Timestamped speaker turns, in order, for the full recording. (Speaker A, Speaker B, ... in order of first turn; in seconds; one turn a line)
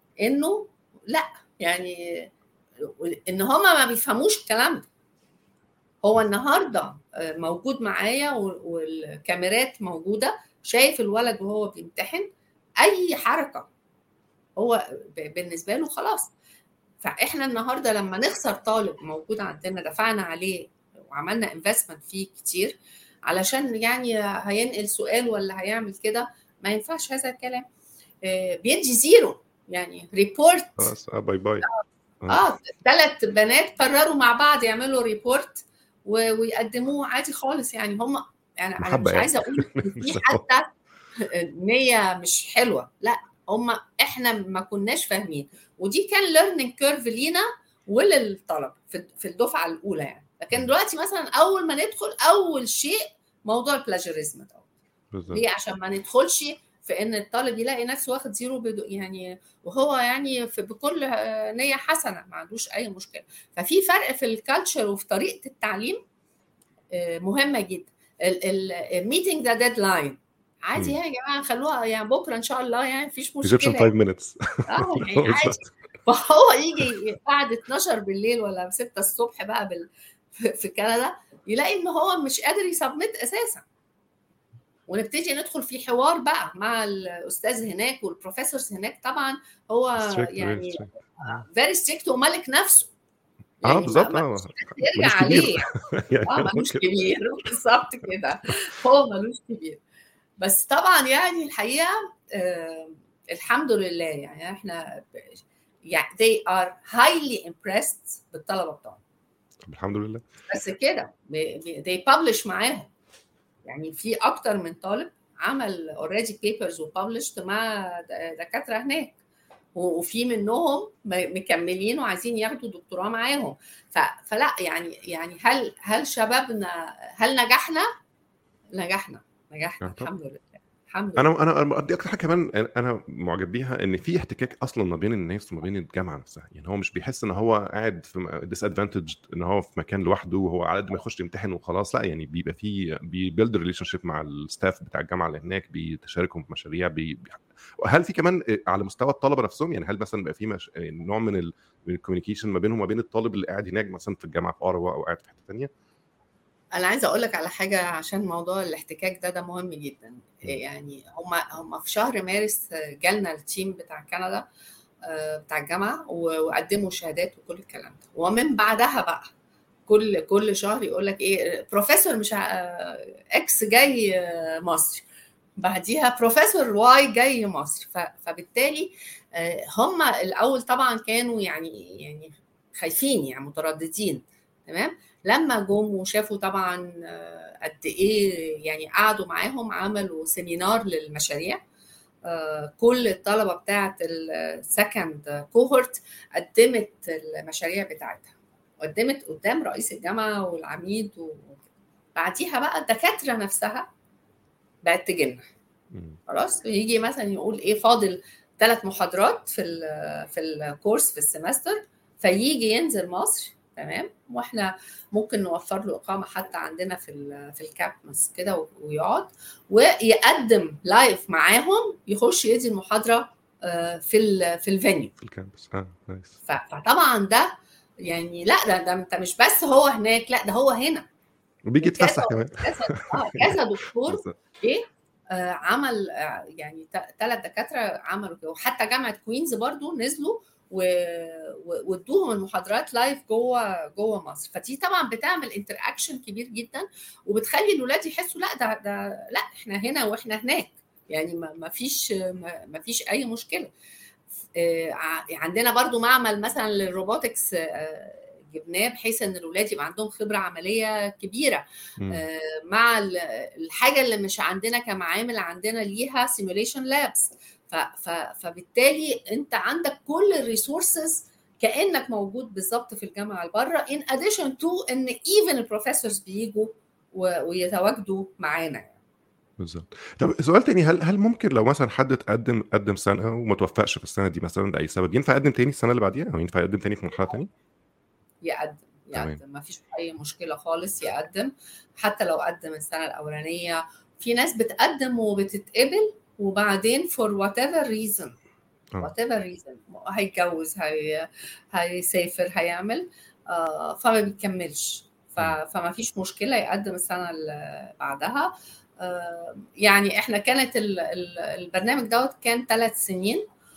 Speaker A: 0.2-4.9
Speaker A: 6.0-12.3
Speaker A: 12.8-13.7
Speaker A: 14.6-16.3
Speaker A: 17.0-27.6
Speaker A: 28.2-30.9
Speaker B: 30.8-31.7
Speaker A: 32.3-54.7
Speaker B: 38.8-40.4
Speaker B: 55.1-55.4
Speaker A: 55.3-66.0
Speaker A: 66.9-73.9
Speaker B: 73.4-75.7
Speaker A: 74.7-83.6
Speaker A: 84.9-92.9
Speaker B: 90.0-91.4
Speaker A: 93.6-95.7
Speaker B: 93.6-96.8
Speaker A: 96.3-99.8
Speaker A: 100.4-109.0
Speaker B: 109.6-110.2
Speaker A: 110.5-112.9
Speaker A: 113.6-119.2
Speaker A: 119.7-127.9
Speaker A: 128.7-131.3
Speaker B: 129.8-130.1
Speaker B: 131.2-155.7
Speaker A: 156.8-164.5
Speaker A: 165.1-169.3
Speaker A: 169.9-175.1
Speaker A: 175.6-191.6
Speaker A: 192.2-201.6
Speaker A: 202.2-203.9
Speaker A: 204.8-205.5
Speaker B: 205.9-206.2
Speaker A: 206.3-225.1
Speaker B: 225.2-226.4
Speaker A: 226.5-227.5
Speaker A: 228.0-231.1
Speaker B: 231.7-234.4
Speaker A: 231.8-253.7
Speaker A: 254.6-278.9
Speaker B: 262.0-262.2
Speaker B: 279.6-287.5
Speaker A: 288.4-298.4
Speaker B: 289.1-289.4
Speaker A: 299.0-313.4